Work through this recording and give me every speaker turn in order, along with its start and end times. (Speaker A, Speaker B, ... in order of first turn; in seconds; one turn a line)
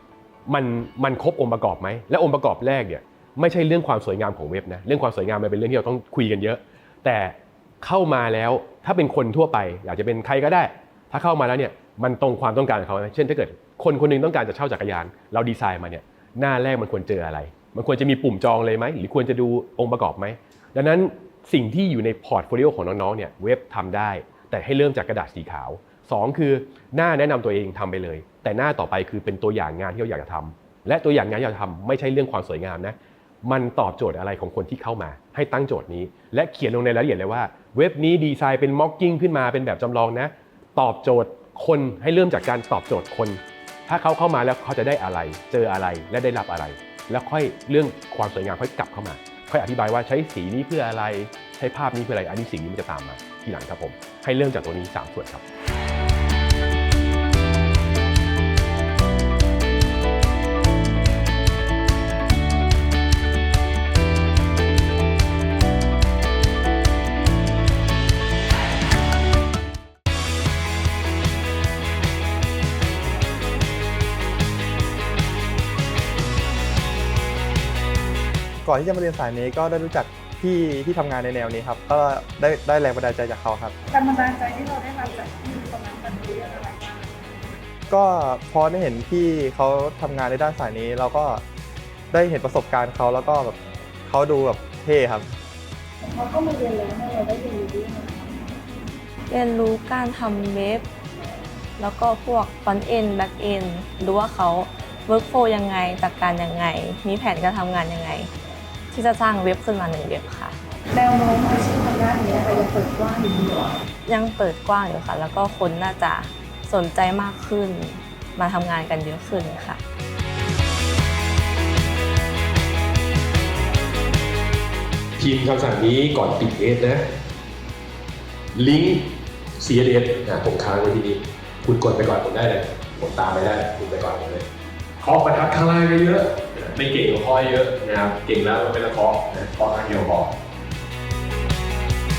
Speaker A: 0.5-55.4
Speaker B: 78.6-83.8
Speaker C: 83.9-87.2
Speaker B: 87.9-91.4
Speaker B: 92.1-95.3
Speaker C: 96.0-98.6
Speaker D: 99.3-100.8
Speaker D: 101.8-108.3
Speaker D: 108.9-110.6
Speaker C: 110.9-113.8
Speaker D: 114.1-119.8
Speaker A: 125.2-127.0
Speaker A: 128.5-134.4
Speaker A: 135.0-140.3